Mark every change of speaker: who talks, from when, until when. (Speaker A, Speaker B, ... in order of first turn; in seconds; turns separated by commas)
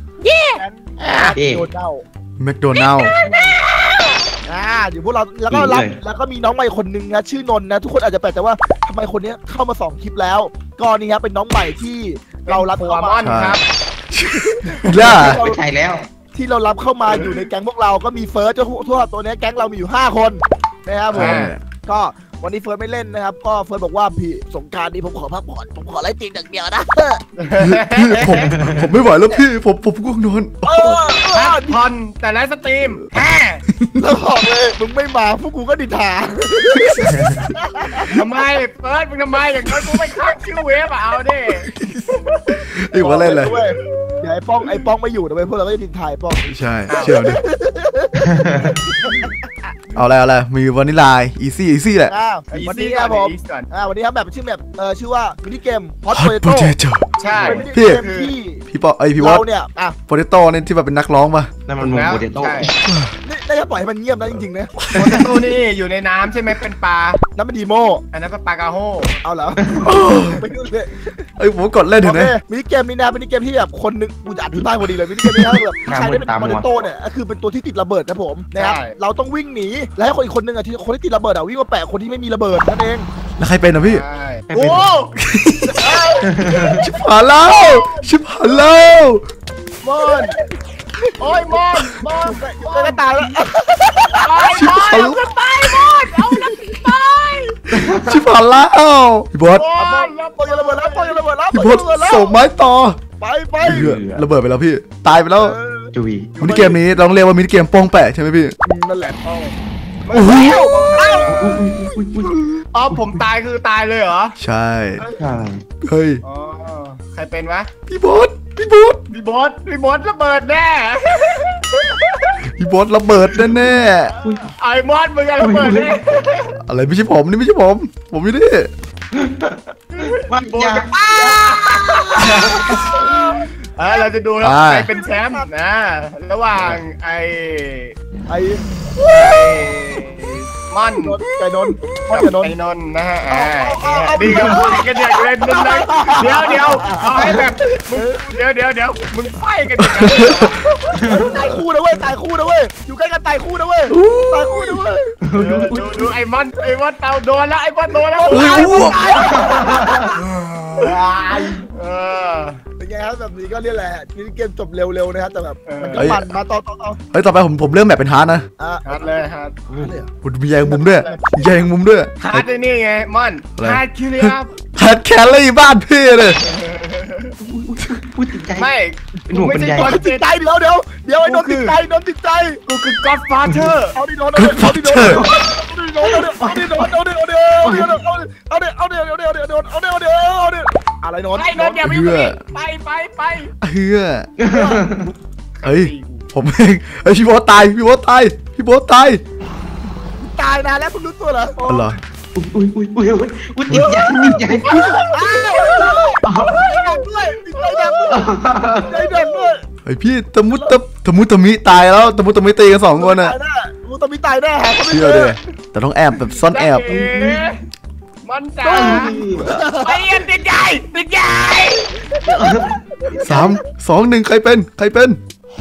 Speaker A: 0.2-1.3, Speaker B: 0.6-2.0, Speaker C: 1.4-1.7, Speaker D: 2.4-3.1, Speaker A: 2.7-4.3, Speaker B: 4.5-13.3, Speaker C: 5.5-6.0, Speaker A: 12.5-13.6, Speaker D: 13.2-13.6, Speaker D: 14.1-15.4, Speaker B: 14.4-15.6, Speaker C: 15.1-16.1, Speaker B: 16.3-27.2, Speaker D: 21.1-21.6, Speaker A: 21.1-21.5, Speaker A: 27.4-28.4, Speaker D: 27.6-31.0, Speaker B: 30.6-31.8, Speaker A: 31.3-33.6, Speaker B: 34.0-38.2, Speaker A: 38.1-42.4, Speaker D: 41.7-43.6, Speaker B: 43.0-49.7, Speaker A: 44.0-44.8, Speaker D: 46.5-47.4, Speaker A: 46.9-47.2, Speaker C: 48.4-48.8, Speaker D: 50.0-52.1, Speaker B: 52.1-56.8, Speaker A: 52.5-53.7, Speaker D: 56.1-57.1, Speaker A: 57.2-58.3, Speaker C: 57.3-57.6, Speaker B: 57.4-58.6, Speaker D: 57.7-58.0, Speaker D: 58.7-59.5, Speaker B: 59.2-60.0, Speaker D: 60.1-61.5, Speaker C: 61.7-62.8, Speaker A: 61.8-62.7, Speaker D: 62.9-63.1, Speaker B: 63.2-64.9, Speaker D: 64.8-65.2, Speaker A: 64.9-67.2, Speaker B: 67.4-68.0, Speaker A: 68.1-69.2, Speaker B: 69.2-71.2, Speaker C: 69.6-69.9, Speaker D: 69.8-70.4, Speaker D: 71.4-72.3, Speaker B: 72.0-83.1, Speaker D: 75.2-75.6, Speaker C: 75.9-76.8, Speaker A: 78.6-79.0, Speaker D: 83.4-84.0, Speaker A: 83.8-85.1, Speaker C: 84.5-84.9, Speaker D: 85.2-85.9, Speaker B: 85.7-86.3, Speaker C: 86.2-86.9, Speaker D: 86.7-89.2, Speaker A: 87.4-88.1, Speaker A: 89.8-90.4, Speaker B: 90.1-90.4, Speaker B: 91.1-91.6, Speaker A: 91.2-93.3, Speaker B: 92.2-94.5, Speaker A: 94.2-97.8, Speaker D: 94.5-95.8, Speaker C: 97.7-98.2, Speaker D: 97.8-99.7, Speaker A: 99.5-101.2, Speaker B: 99.8-102.4, Speaker D: 101.5-103.0, Speaker B: 103.2-104.0, Speaker D: 103.6-105.6, Speaker C: 103.6-104.2, Speaker B: 105.4-106.8, Speaker C: 105.9-106.3, Speaker D: 106.4-108.5, Speaker B: 108.7-109.5, Speaker A: 110.1-111.7, Speaker D: 110.1-110.8, Speaker B: 110.3-111.5, Speaker C: 111.3-112.4, Speaker A: 112.7-114.4, Speaker D: 114.4-115.0, Speaker C: 115.2-115.6, Speaker D: 115.8-116.2, Speaker A: 116.2-117.7, Speaker D: 117.9-119.0, Speaker A: 119.1-122.4, Speaker D: 122.6-124.1, Speaker C: 124.2-124.5, Speaker A: 124.2-126.5, Speaker C: 125.4-126.0, Speaker D: 126.7-128.7, Speaker C: 129.1-130.9, Speaker A: 129.9-132.9, Speaker B: 131.0-131.8, Speaker C: 132.2-132.8, Speaker B: 132.9-133.5, Speaker A: 133.8-137.9, Speaker D: 134.4-134.9, Speaker B: 135.0-135.5, Speaker B: 138.3-138.6, Speaker D: 139.0-139.4, Speaker A: 139.1-141.2, Speaker C: 139.4-139.8, Speaker B: 141.0-142.6, Speaker D: 141.6-142.0, Speaker A: 142.1-151.3, Speaker B: 143.3-148.3, Speaker D: 149.8-150.6, Speaker C: 151.0-151.3, Speaker B: 151.1-155.1, Speaker D: 153.9-154.8, Speaker C: 155.2-156.1, Speaker A: 155.3-160.0, Speaker B: 158.2-160.2, Speaker D: 158.3-159.5, Speaker C: 159.3-160.0, Speaker D: 160.4-160.9, Speaker A: 160.8-162.6, Speaker B: 161.3-161.6, Speaker B: 162.8-167.0, Speaker A: 165.7-166.1, Speaker D: 165.9-166.3, Speaker D: 167.1-168.5, Speaker B: 168.6-169.0, Speaker A: 168.8-169.6, Speaker B: 169.7-170.1, Speaker D: 170.2-172.5, Speaker B: 170.6-171.6, Speaker A: 170.9-171.3, Speaker A: 172.2-174.5, Speaker D: 173.6-176.4, Speaker A: 176.4-177.3, Speaker C: 177.4-178.7, Speaker A: 178.6-180.3, Speaker C: 179.3-180.0, Speaker B: 179.8-182.6, Speaker A: 181.2-181.8, Speaker A: 182.7-183.9, Speaker B: 183.9-191.8, Speaker D: 184.4-185.2, Speaker C: 185.0-185.5, Speaker C: 186.0-186.9, Speaker C: 187.6-188.0, Speaker A: 191.3-193.5, Speaker D: 191.8-192.4, Speaker D: 193.6-194.3, Speaker C: 194.4-195.2, Speaker B: 194.5-194.8, Speaker A: 195.6-196.2, Speaker D: 195.6-199.2, Speaker B: 200.2-201.6, Speaker A: 201.6-202.0, Speaker D: 201.7-202.0, Speaker C: 202.3-204.9, Speaker D: 203.7-204.4, Speaker B: 204.6-208.3, Speaker A: 204.7-207.1, Speaker C: 206.2-206.6, Speaker A: 207.6-208.2, Speaker C: 208.1-208.9, Speaker B: 208.9-209.6, Speaker D: 209.9-213.3, Speaker B: 210.5-210.8, Speaker B: 212.9-215.4, Speaker D: 214.9-217.0, Speaker A: 216.4-217.6, Speaker C: 216.9-217.5, Speaker A: 218.2-221.9, Speaker C: 218.6-219.5, Speaker B: 218.8-220.0, Speaker B: 222.2-223.6, Speaker C: 222.3-222.8, Speaker D: 223.2-225.2